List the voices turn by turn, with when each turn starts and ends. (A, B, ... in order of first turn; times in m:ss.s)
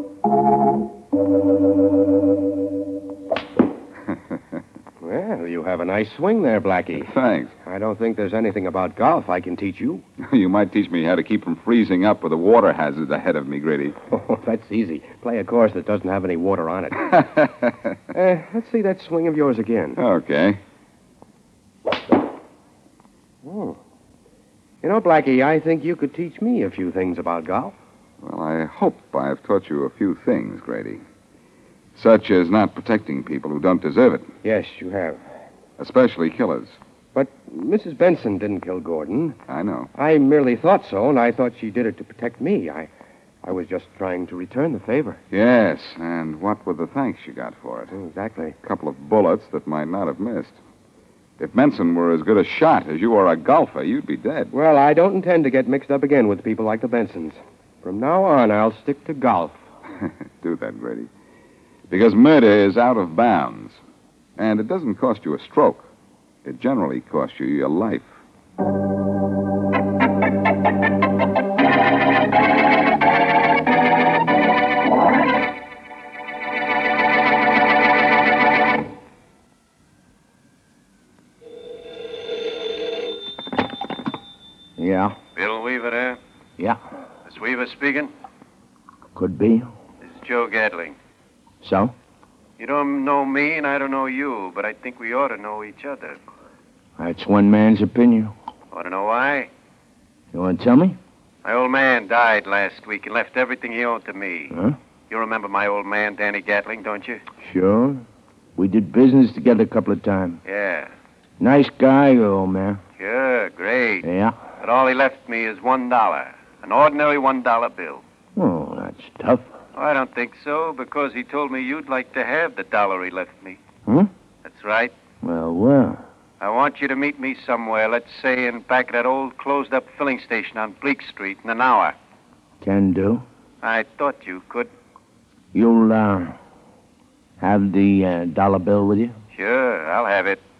0:05.0-0:07.1 A
0:07.0-0:07.5 B
0:07.6-0:10.0 A
0:10.2-0:14.0 B
0:14.1-0:17.2 A
0:17.1-0:17.9 B
0:18.1-0:20.0 A
0:20.0-0:20.6 B
0:23.4-0:23.8 A
0:24.8-0:27.8 A
0:28.2-0:31.0 B
0:32.0-0:34.3 B
0:34.4-0:35.2 A
0:35.8-0:36.8 B
0:37.1-0:39.4 A
0:39.5-0:39.9 B
0:40.0-0:42.9 A
0:43.4-0:45.2 A
0:45.3-0:48.0 B
0:47.9-0:48.6 A
0:48.6-0:50.6 B
0:51.4-0:54.5 B
0:54.5-0:59.6 A
1:00.0-1:01.1 B
1:01.9-1:03.8 B
1:04.4-1:05.9 B
1:06.4-1:08.1 B
1:24.8-1:25.2 C
1:25.4-1:26.2 D
1:27.3-1:28.1 D
1:29.2-1:29.7 C
1:30.0-1:31.0 D
1:31.6-1:31.9 C
1:32.6-1:36.2 D
1:37.0-1:38.3 C
1:38.7-1:39.5 D
1:40.3-1:41.0 C
1:41.4-1:44.5 D
1:44.5-1:44.8 C
1:45.1-1:47.2 D
1:47.4-1:48.0 C
1:48.6-1:50.4 C
1:50.5-1:50.9 D
1:51.4-1:52.8 C
1:53.0-1:54.1 D
1:54.0-1:54.4 C
1:54.6-1:58.0 D
1:58.4-1:59.5 C
1:59.8-2:03.6 D
2:04.4-2:04.9 D
2:05.2-2:06.0 C
2:06.4-2:12.0 D
2:12.6-2:13.2 C
2:13.6-2:14.7 D
2:15.5-2:16.4 C
2:17.4-2:19.1 C
2:19.3-2:20.4 D